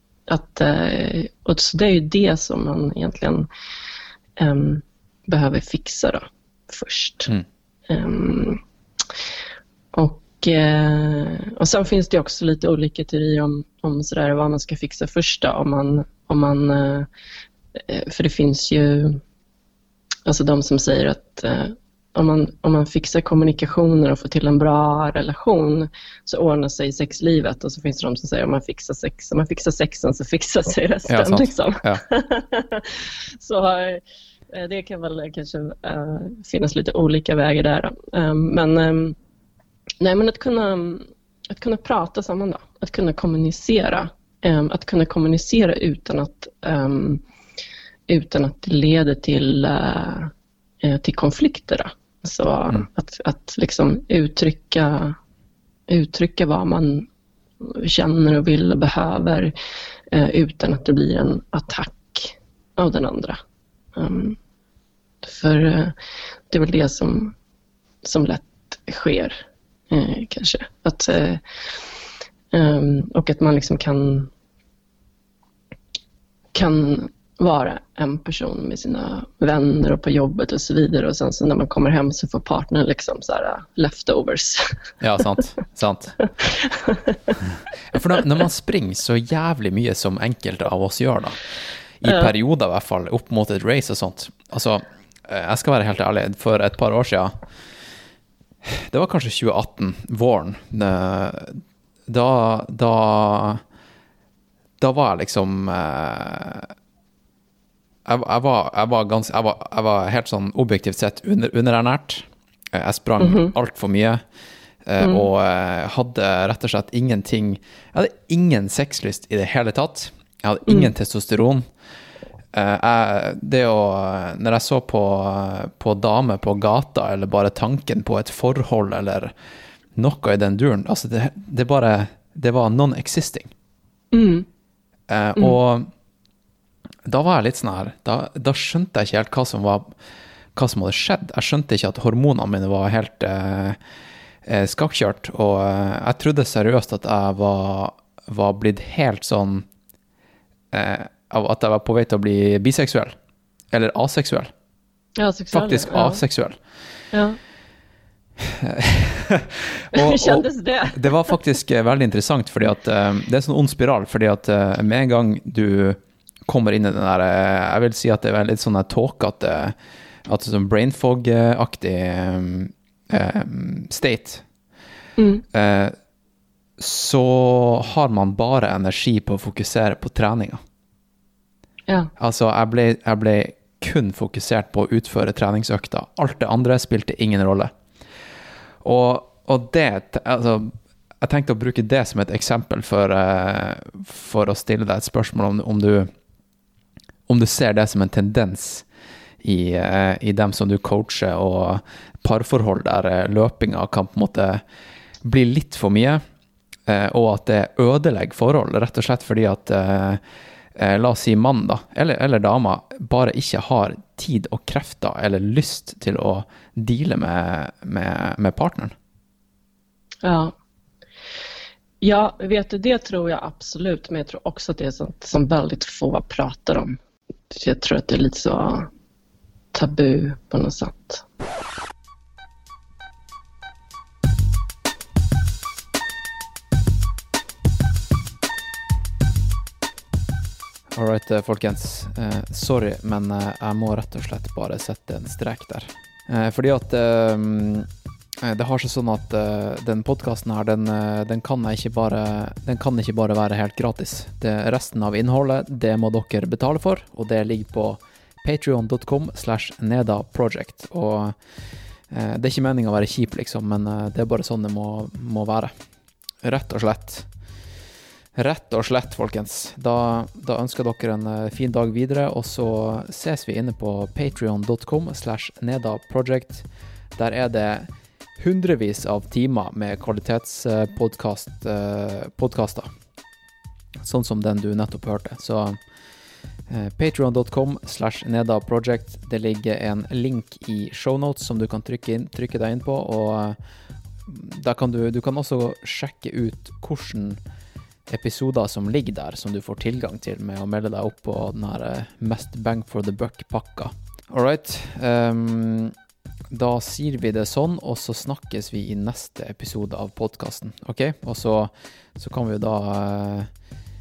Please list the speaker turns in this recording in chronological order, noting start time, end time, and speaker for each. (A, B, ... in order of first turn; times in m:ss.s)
0:00.3-0:03.5 A
0:04.4-0:07.3 A
0:07.9-0:08.6 A
0:09.9-0:17.1 A
0:17.8-0:19.2 A
0:20.3-0:39.2 A
0:31.1-0:32.0 B
0:40.0-0:47.2 A
0:48.1-0:50.3 A
0:50.8-0:55.2 A
0:55.9-0:57.1 A
0:57.6-0:59.5 A
1:00.1-1:03.4 A
1:04.0-1:04.4 A
1:05.2-1:05.9 A
1:06.5-1:07.4 A
1:08.0-1:11.4 A
1:12.5-1:14.3 A
1:16.5-1:24.8 A
1:25.0-1:26.2 B
1:26.4-1:27.4 A
1:27.9-1:31.4 B
1:32.0-1:37.3 B
1:38.6-1:43.6 B
1:44.8-1:46.7 B
1:48.1-1:54.2 B
1:53.2-1:53.5 A
1:54.8-2:01.6 B
1:55.0-1:55.3 A
2:02.5-2:09.3 B
2:10.0-2:13.5 B
2:14.1-2:14.5 A
2:15.1-2:15.9 B
2:17.0-2:19.9 B
2:20.6-2:23.8 B
2:24.4-2:29.7 B
2:30.7-2:33.2 B
2:33.7-2:34.5 B
2:35.2-2:36.2 A
2:35.5-2:36.6 B
2:37.1-2:37.4 A
2:38.4-2:49.8 B
2:39.9-2:41.2 A
2:50.3-2:54.4 B
2:55.2-2:55.4 A
2:55.5-2:56.0 B
2:56.8-3:00.6 B
3:02.2-3:07.7 B
3:08.8-3:16.1 B
3:17.3-3:18.9 B
3:19.4-3:24.6 B
3:25.2-3:26.2 B
3:26.9-3:30.2 B
3:30.8-3:38.9 B
3:40.2-3:40.5 A
3:42.0-3:47.0 A
3:47.5-3:48.9 A
3:49.7-3:51.2 A
4:00.9-4:07.9 B
4:08.4-4:21.4 B
4:22.1-4:25.7 B
4:26.4-4:27.3 B
4:28.4-4:42.9 B
4:44.0-4:45.8 B
4:46.7-4:53.6 B
4:54.3-4:57.4 B
4:58.1-5:05.9 B
5:06.5-5:13.5 B